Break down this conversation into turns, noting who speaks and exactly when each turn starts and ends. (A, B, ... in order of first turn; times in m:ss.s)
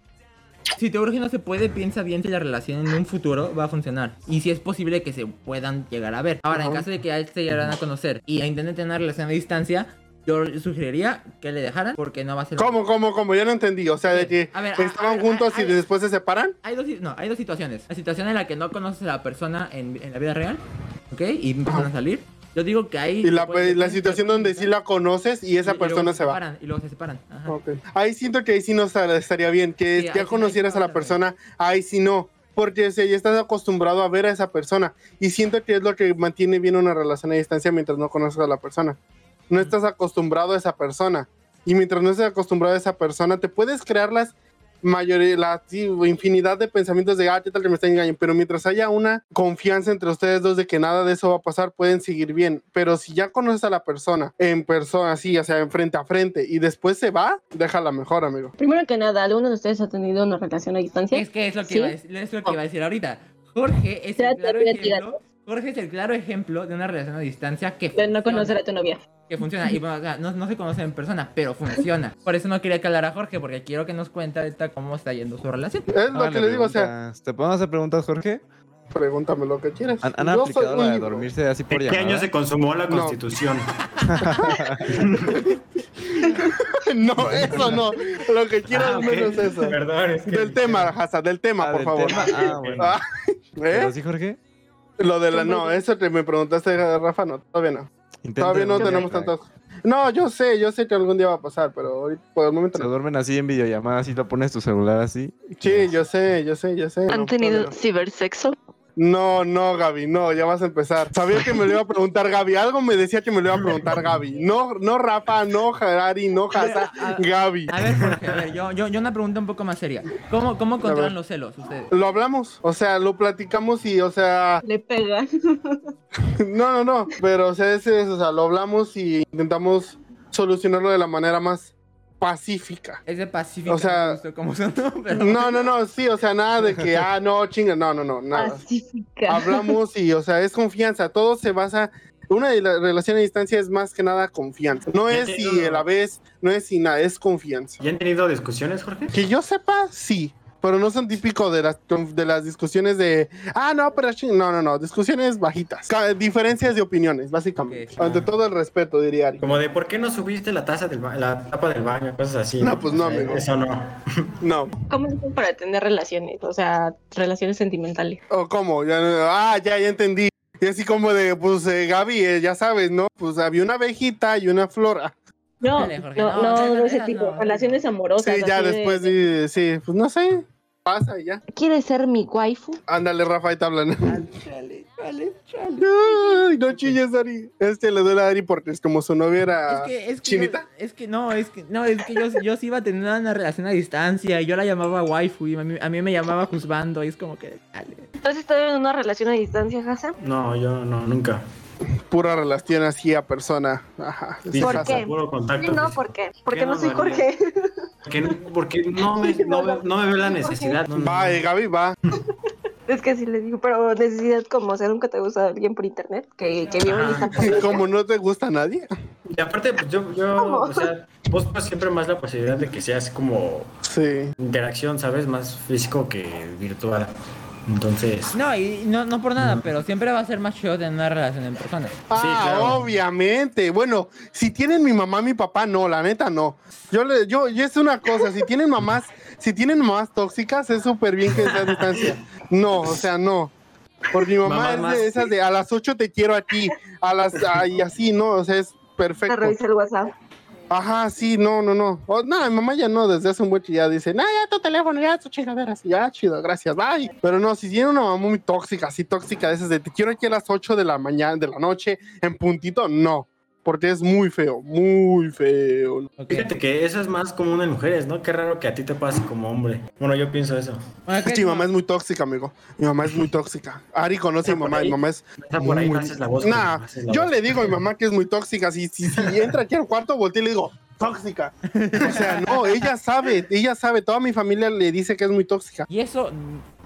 0:00.8-0:12.8 A
0:06.5-0:06.8 B
0:12.6-0:16.6 B
0:14.1-0:15.8 A
0:16.6-0:24.7 A
0:23.2-0:26.4 B
0:25.6-0:27.6 A
0:27.5-0:39.0 B
0:29.9-0:31.2 A
0:39.5-0:58.5 B
0:58.6-1:02.6 C
1:01.1-1:08.6 A
1:04.2-1:05.1 C
1:08.0-1:09.0 C
1:09.3-1:15.9 A
1:15.9-1:16.9 B
1:16.1-1:18.4 D
1:18.9-1:21.3 B
1:20.0-1:22.3 D
1:21.7-1:23.8 E
1:22.9-1:23.2 B
1:24.0-1:25.1 D
1:24.2-1:25.4 B
1:24.9-1:25.4 E
1:26.2-1:29.8 B
1:27.2-1:27.8 D
1:27.3-1:27.7 E
1:28.7-1:31.0 E
1:30.3-1:33.0 B
1:31.6-1:33.0 D
1:32.1-1:32.9 E
1:33.6-1:33.9 B
1:33.7-1:34.4 D
1:35.0-1:37.9 B
1:35.3-1:35.8 C
1:38.2-1:39.3 D
1:38.4-1:42.9 B
1:38.8-1:39.1 C
1:42.8-1:45.9 D
1:45.6-1:47.7 B
1:47.1-1:48.6 C
1:49.0-1:57.7 B
1:56.5-2:01.9 A
2:00.8-2:01.1 B
2:01.9-2:04.6 B
2:04.6-2:05.9 C
2:06.3-2:13.0 B
2:13.1-2:15.7 A
2:13.7-2:14.2 B
2:15.2-2:18.6 B
2:18.3-2:19.8 C
2:19.3-2:27.8 B
2:25.1-2:25.9 E
2:27.8-2:29.2 E
2:29.1-2:39.6 B
2:37.6-2:38.3 A
2:39.4-2:44.3 E
2:42.6-2:43.5 B
2:44.4-2:44.8 B
2:44.9-2:48.2 C
2:48.3-2:55.1 B
2:55.6-2:59.2 C
2:55.7-2:57.8 A
2:58.2-3:01.4 B
3:01.5-3:02.8 C
3:02.9-3:04.2 B
3:04.1-3:05.9 A
3:05.8-3:10.6 B
3:06.7-3:07.0 A
3:09.7-3:18.1 A
3:18.2-3:20.2 C
3:20.2-3:21.4 E
3:22.1-3:25.0 B
3:24.5-3:27.3 E
3:24.6-3:28.3 C
3:28.0-3:31.5 E
3:29.1-3:30.8 C
3:30.9-3:32.0 B
3:32.9-3:37.8 C
3:36.8-3:37.9 E
3:37.4-3:38.9 B
3:39.3-3:43.7 E
3:40.4-3:40.9 C
3:43.9-3:44.3 B
3:44.4-3:47.1 E
3:47.7-3:48.4 E
3:48.3-3:52.0 A
3:49.4-3:49.7 E
3:52.1-4:03.5 B
3:52.1-3:52.9 E
4:01.3-4:02.1 E
4:04.1-4:09.6 B
4:04.2-4:05.3 E
4:09.3-4:10.1 C
4:10.7-4:26.1 B
4:26.2-4:26.5 A
4:26.3-4:30.8 E
4:31.1-4:31.7 A
4:31.2-4:45.9 B
4:34.4-4:37.8 E
4:39.2-4:39.6 E
4:41.7-4:42.9 A
4:45.9-4:46.6 A